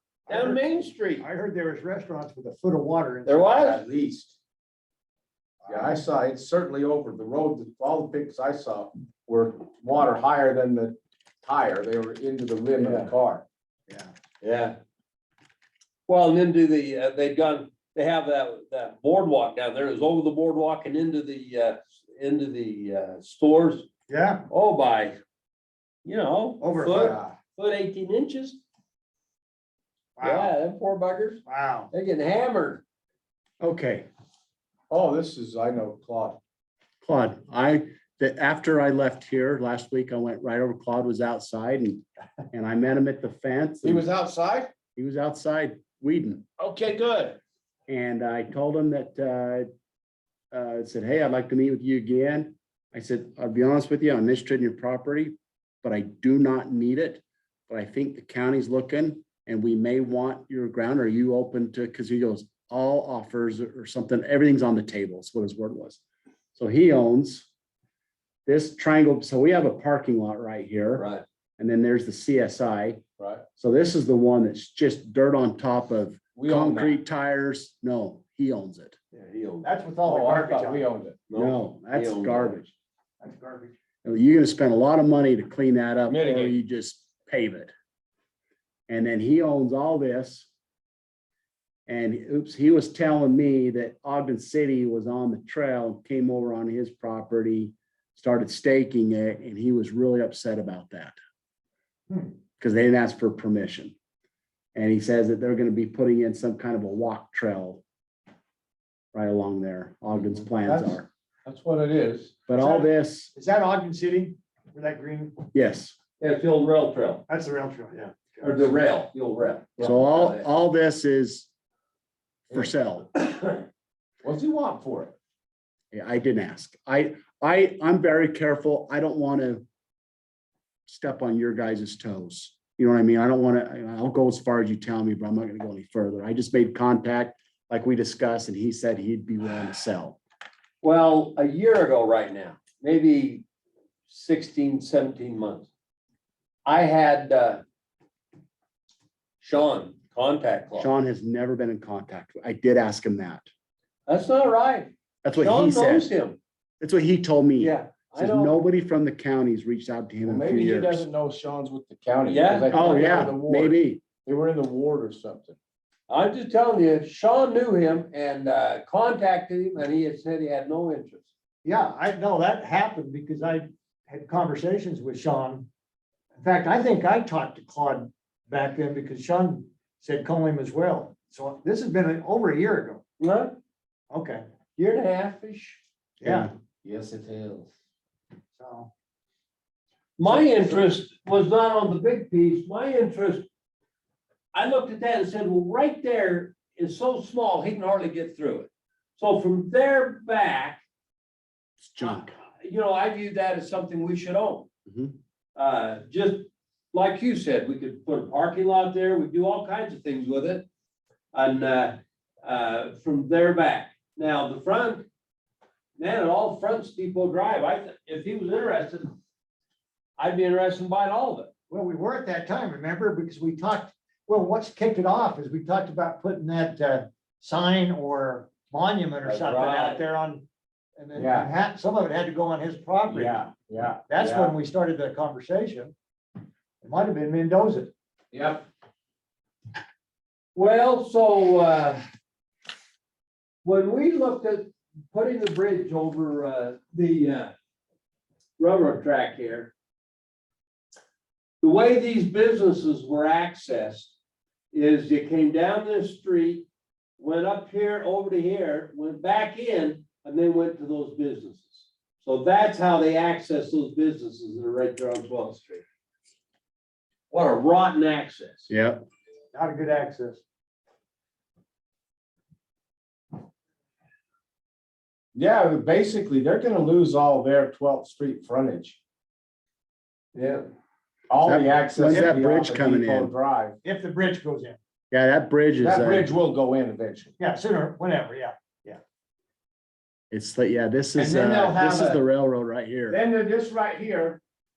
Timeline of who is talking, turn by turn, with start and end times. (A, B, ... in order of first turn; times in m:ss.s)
0:00.3-0:00.6 A
0:00.3-0:01.2 B
0:01.2-0:03.8 A
0:03.2-0:03.8 B
0:03.7-0:04.4 C
0:05.7-0:13.4 C
0:12.8-0:13.1 B
0:14.4-0:14.8 B
0:16.1-0:23.9 B
0:24.1-0:24.4 A
0:24.5-0:25.2 B
0:26.0-0:28.6 B
0:26.6-0:27.3 A
0:30.2-0:30.5 A
0:30.2-0:32.8 B
0:31.4-0:31.9 A
0:33.6-0:34.1 D
0:34.9-0:36.4 C
0:37.0-0:44.0 D
0:43.8-0:44.7 C
0:44.9-0:46.4 D
0:46.6-0:47.4 C
0:47.9-0:49.7 D
0:50.5-1:06.0 D
1:06.5-1:07.5 D
1:08.4-1:11.0 D
1:11.0-1:11.2 B
1:11.6-1:13.0 D
1:13.2-1:13.4 C
1:13.6-1:19.0 D
1:16.4-1:17.0 C
1:19.1-1:19.7 B
1:19.6-1:20.9 A
1:20.0-1:21.2 C
1:21.3-1:22.6 B
1:21.3-1:22.7 D
1:23.2-1:23.7 A
1:24.0-1:27.7 D
1:26.1-1:26.6 C
1:28.9-1:30.5 D
1:31.9-1:41.1 D
1:42.6-1:44.0 D
1:44.7-1:47.8 D
1:49.1-1:51.0 D
1:50.2-1:52.4 C
1:52.5-1:53.3 D
1:52.5-1:55.4 A
1:55.5-1:55.9 D
1:56.2-1:57.2 B
1:57.3-1:58.7 A
1:58.4-2:00.4 B
1:59.8-2:01.5 D
2:02.5-2:03.1 D
2:04.2-2:05.1 C
2:05.9-2:09.6 D
2:10.9-2:20.2 D
2:20.8-2:23.4 B
2:24.1-2:25.7 B
2:26.6-2:27.6 B
2:29.4-2:30.9 B
2:30.8-2:33.5 D
2:34.1-2:36.4 B
2:35.2-2:36.1 D
2:36.8-2:41.0 D
2:37.6-2:38.6 B
2:40.2-2:45.6 C
2:42.3-2:43.2 B
2:42.7-2:44.0 D
2:46.1-2:51.3 B
2:51.6-2:55.7 A
2:56.4-3:03.0 A
3:03.2-3:03.5 B
3:04.1-3:04.4 A
3:04.8-3:05.8 B
3:06.2-3:06.5 A
3:06.2-3:06.5 D
3:06.8-3:07.7 C
3:08.5-3:08.9 A
3:10.2-3:13.4 B
3:14.5-3:20.8 B
3:21.8-3:22.4 D
3:22.6-3:24.7 B
3:24.9-3:25.2 D
3:25.6-3:30.6 B
3:31.3-3:35.0 B
3:36.0-3:39.1 B
3:40.2-3:41.5 B
3:41.7-3:50.4 A
3:49.2-3:50.0 B
3:51.0-3:53.4 A
3:51.1-3:51.5 C
3:53.1-3:54.5 C
3:54.1-3:55.9 A
3:56.8-3:57.9 A
3:58.3-3:58.6 C
4:00.5-4:02.0 B
4:03.6-4:07.5 B
4:08.6-4:09.7 B
4:11.6-4:14.1 B
4:14.7-4:16.7 B
4:17.2-4:25.8 B
4:27.3-4:28.7 B
4:28.7-4:29.0 D
4:29.5-4:30.4 A
4:35.3-4:39.0 C
4:40.3-4:40.6 B
4:41.3-4:43.8 C
4:41.4-4:43.3 D
4:43.8-4:44.8 A
4:45.1-4:46.3 D
4:45.8-4:47.3 C
4:47.4-4:49.0 A
4:50.3-4:53.2 D
4:51.3-4:52.1 C
4:53.1-4:54.4 C